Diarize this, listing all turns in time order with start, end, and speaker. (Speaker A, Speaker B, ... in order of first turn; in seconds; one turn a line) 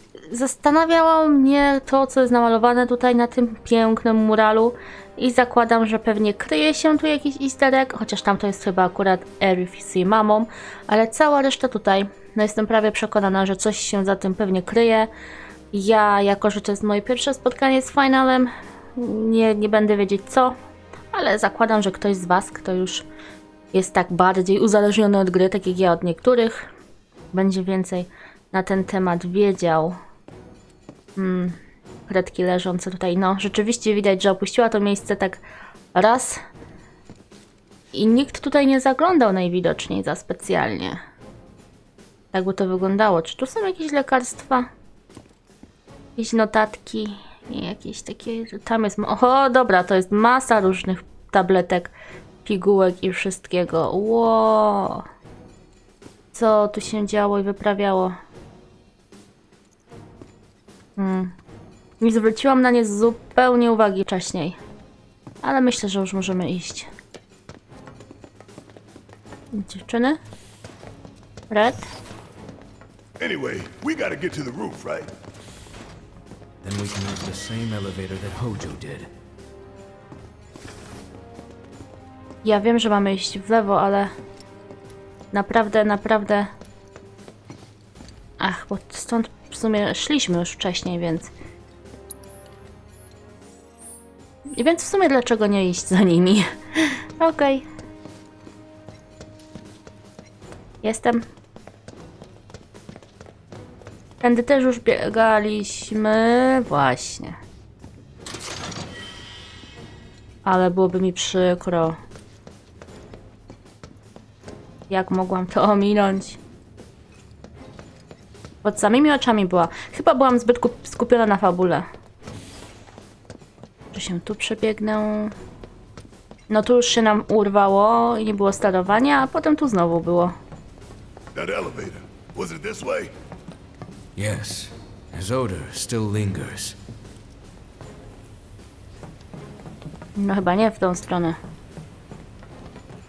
Speaker A: 0.3-15.1
Speaker A: 15.7-20.6
Speaker A: 21.1-23.1
Speaker A: 23.7-26.7
Speaker A: 27.3-30.0
Speaker A: 31.2-35.4
Speaker A: 35.9-36.4
Speaker A: 37.9-41.0
Speaker A: 42.3-44.7
Speaker A: 46.2-51.9
Speaker A: 52.5-55.0
Speaker A: 56.3-58.2
Speaker A: 61.0-61.3
Speaker A: 62.0-64.6
Speaker A: 65.4-66.9
Speaker A: 69.5-70.2
Speaker A: 71.5-71.9
Speaker B: 73.2-75.1
Speaker C: 76.6-79.1
Speaker A: 82.4-84.1
Speaker A: 85.3-86.5
Speaker A: 88.4-91.3
Speaker A: 94.5-97.7
Speaker A: 100.8-101.3
Speaker A: 104.2-107.4
Speaker A: 110.5-112.0
Speaker A: 114.9-116.4
Speaker A: 118.6-121.9
Speaker A: 123.9-125.3
Speaker A: 126.5-130.4
Speaker B: 131.3-133.1
Speaker C: 134.2-136.8
Speaker A: 140.2-141.4